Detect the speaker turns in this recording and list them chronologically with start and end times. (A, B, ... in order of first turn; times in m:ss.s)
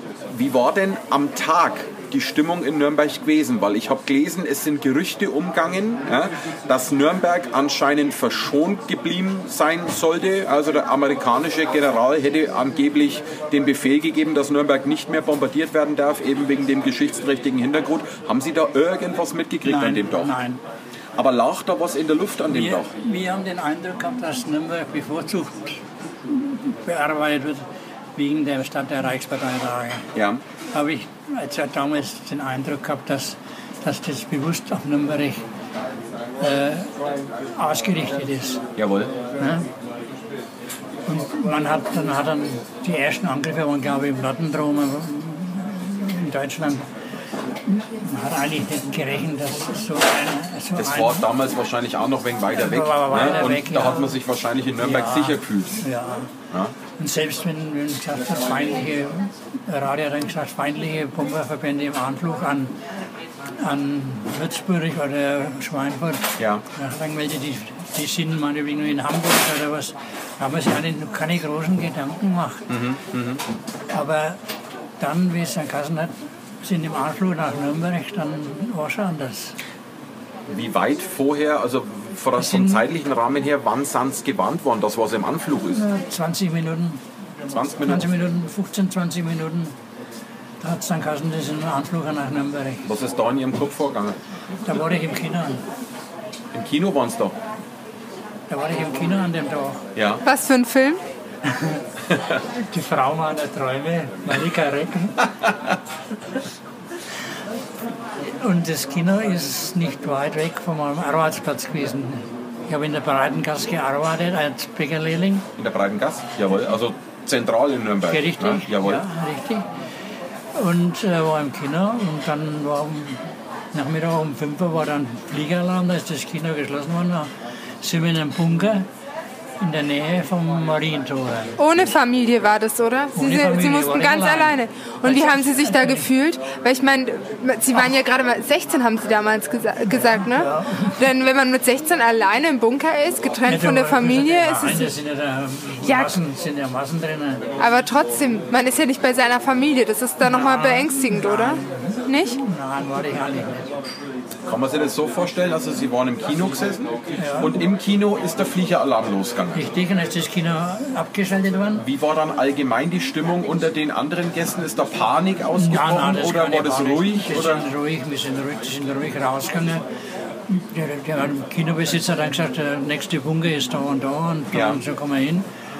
0:00.3-0:20.4 A
0:19.6-0:20.6 B
0:21.2-0:22.9 A
0:22.5-0:30.1 B
0:30.2-0:30.4 A
0:30.7-0:35.4 B
0:36.4-0:36.9 B
0:37.6-0:38.6 B
0:38.8-0:39.2 A
0:39.4-0:39.7 B
0:41.1-0:46.9 B
0:47.6-0:51.3 B
0:50.8-0:55.9 A
0:52.6-0:54.2 B
0:54.8-0:56.3 B
0:57.0-1:02.8 B
1:03.6-1:12.7 B
1:06.4-1:06.6 A
1:12.7-1:13.4 A
1:13.9-1:14.4 B
1:15.0-1:19.6 B
1:20.5-1:25.8 A
1:22.4-1:22.8 B
1:25.7-1:27.0 B
1:27.5-1:28.1 A
1:27.8-1:29.7 B
1:30.6-1:32.9 B
1:32.8-1:34.2 A
1:34.6-1:35.6 B
1:36.5-1:37.4 A
1:38.5-1:39.9 B
1:40.0-1:40.2 A
1:40.2-1:41.0 C
1:41.4-1:41.8 B
1:42.1-1:42.4 A
1:42.6-1:45.3 B
1:48.2-1:55.4 B
1:55.6-1:59.0 A
1:58.1-1:59.7 B
2:00.5-2:03.2 B
2:03.7-2:08.9 B
2:09.6-2:11.6 B
2:11.6-2:24.9 C
2:13.2-2:16.1 B
2:19.9-2:21.0 B
2:23.5-2:27.4 B
2:25.8-2:26.2 C
2:27.6-2:32.4 C
2:30.2-2:33.7 B
2:34.4-2:39.6 A
2:37.2-2:37.6 B
2:39.5-2:41.8 B
2:41.8-2:47.6 A
2:45.6-2:49.8 B
2:50.5-2:55.5 B
2:54.5-2:54.8 A